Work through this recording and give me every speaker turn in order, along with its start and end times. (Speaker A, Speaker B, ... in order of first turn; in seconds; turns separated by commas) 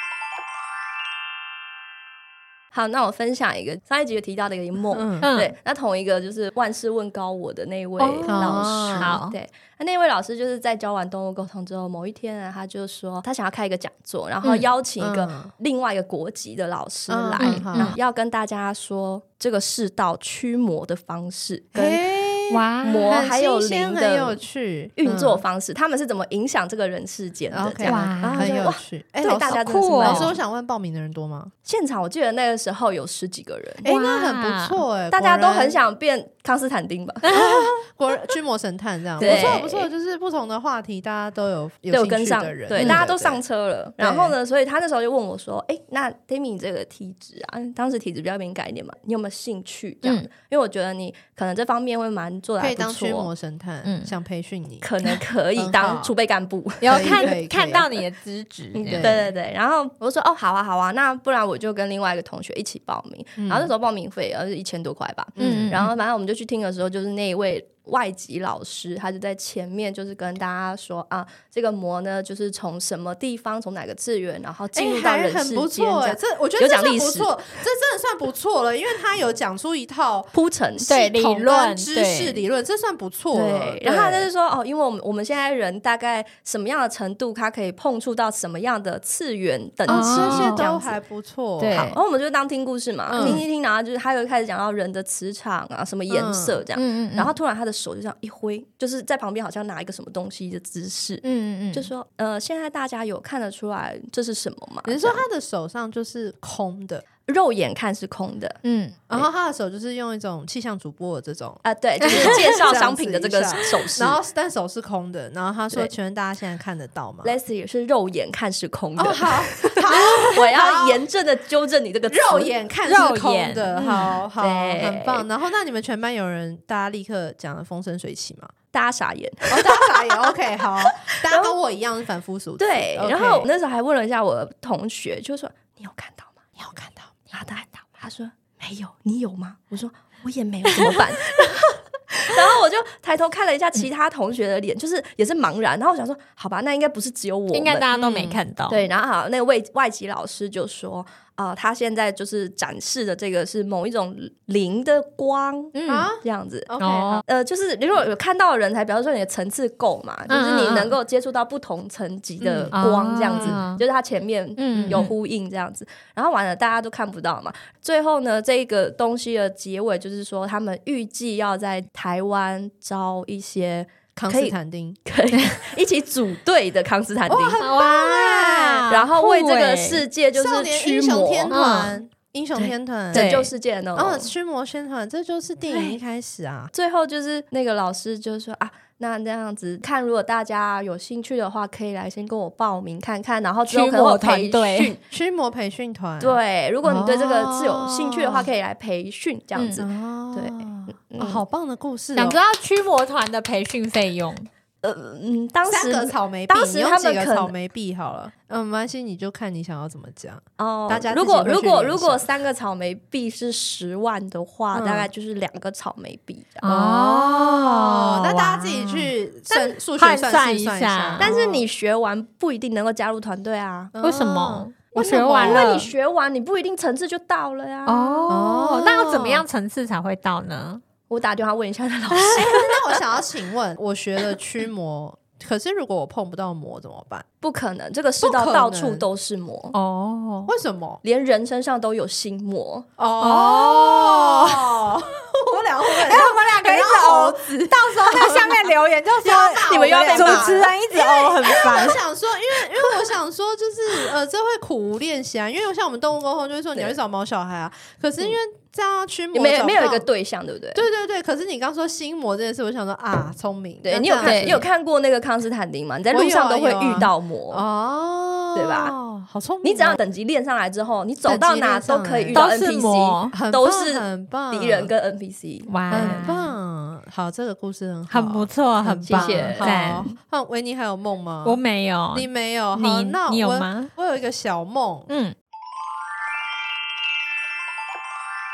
Speaker A: 2.7-22.0, Speaker B: 4.9-5.3, Speaker C: 5.2-5.5, Speaker C: 8.0-9.3, Speaker B: 8.3-9.2, Speaker B: 15.0-15.5, Speaker B: 17.1-17.9, Speaker C: 17.4-18.0, Speaker B: 21.7-25.4, Speaker C: 22.5-23.2, Speaker A: 22.8-24.4, Speaker A: 25.0-30.4, Speaker B: 27.5-31.5, Speaker C: 27.8-28.5, Speaker C: 29.4-30.3, Speaker A: 31.6-33.9, Speaker B: 33.8-35.8, Speaker C: 33.8-34.8, Speaker A: 35.1-37.4, Speaker C: 37.2-37.8, Speaker B: 37.3-43.4, Speaker A: 39.2-39.9, Speaker C: 39.2-39.6, Speaker A: 41.9-53.3, Speaker C: 42.8-43.0, Speaker B: 44.0-44.4, Speaker B: 52.6-54.9, Speaker C: 53.8-54.1, Speaker A: 54.8-57.3, Speaker B: 55.6-56.1, Speaker C: 56.8-59.1, Speaker B: 56.9-57.9, Speaker A: 58.8-77.3, Speaker B: 58.8-59.3, Speaker B: 63.4-63.7, Speaker B: 65.4-65.8, Speaker C: 65.4-65.9, Speaker B: 74.7-80.3, Speaker A: 80.3-80.9, Speaker C: 80.8-82.4, Speaker B: 80.9-84.3, Speaker A: 83.3-90.9, Speaker B: 89.9-92.0, Speaker C: 89.9-90.6, Speaker C: 91.6-92.0, Speaker A: 91.7-105.2, Speaker B: 93.1-93.4, Speaker C: 93.2-93.4, Speaker B: 96.1-96.6, Speaker C: 96.7-97.3, Speaker C: 101.2-101.9, Speaker B: 104.8-107.0, Speaker A: 107.3-108.6, Speaker C: 108.6-109.0, Speaker B: 109.1-117.4, Speaker A: 111.6-114.2, Speaker C: 112.0-112.5, Speaker A: 117.2-122.5, Speaker B: 119.0-121.0, Speaker B: 122.1-128.5, Speaker C: 122.8-124.2, Speaker A: 124.4-125.2, Speaker A: 128.7-130.2, Speaker B: 129.5-133.5, Speaker A: 131.3-131.5, Speaker A: 132.6-136.4, Speaker B: 136.6-137.2, Speaker A: 137.3-147.8, Speaker C: 147.5-148.8, Speaker B: 147.9-148.4, Speaker A: 148.7-156.7, Speaker C: 155.7-156.1, Speaker B: 155.9-157.2, Speaker C: 156.8-157.2, Speaker A: 157.2-177.6, Speaker C: 160.3-160.9, Speaker B: 162.4-162.8, Speaker C: 162.7-163.8, Speaker B: 163.3-163.6, Speaker C: 164.6-165.1, Speaker B: 164.7-165.0, Speaker B: 174.2-175.0, Speaker B: 177.3-178.9, Speaker C: 177.6-180.0, Speaker A: 178.9-181.6, Speaker B: 180.3-186.7, Speaker C: 181.5-182.0, Speaker A: 183.1-184.3, Speaker C: 183.1-183.5, Speaker A: 185.6-186.0, Speaker A: 186.7-195.0, Speaker C: 193.7-194.9, Speaker B: 195.1-198.5, Speaker A: 196.2-201.4, Speaker C: 199.5-199.8, Speaker B: 199.8-202.4, Speaker C: 202.1-204.5, Speaker A: 204.8-207.5, Speaker B: 205.7-212.3, Speaker A: 210.6-216.7, Speaker B: 214.7-215.1, Speaker B: 216.6-221.6, Speaker C: 216.6-221.3, Speaker A: 221.2-223.9, Speaker B: 223.9-225.7, Speaker C: 224.0-225.9, Speaker A: 224.9-228.4, Speaker C: 227.8-230.8, Speaker B: 228.3-229.4, Speaker A: 231.1-232.7, Speaker B: 232.3-237.2, Speaker A: 237.4-239.7, Speaker B: 238.2-239.0, Speaker C: 239.7-240.5, Speaker B: 240.4-241.0, Speaker A: 241.0-242.9, Speaker B: 243.0-260.0, Speaker C: 243.2-244.8, Speaker C: 245.9-252.0, Speaker A: 249.6-250.7, Speaker A: 259.3-260.9, Speaker B: 260.7-264.6, Speaker A: 263.8-267.6, Speaker C: 264.2-264.6, Speaker B: 266.1-270.0, Speaker A: 268.5-268.9, Speaker A: 269.6-276.2, Speaker B: 271.3-272.5, Speaker C: 272.3-273.4, Speaker B: 273.3-274.9, Speaker C: 275.7-276.5, Speaker B: 275.9-281.6, Speaker C: 278.1-280.2, Speaker A: 279.1-279.7, Speaker C: 281.4-283.9, Speaker B: 282.1-285.1, Speaker C: 285.1-285.3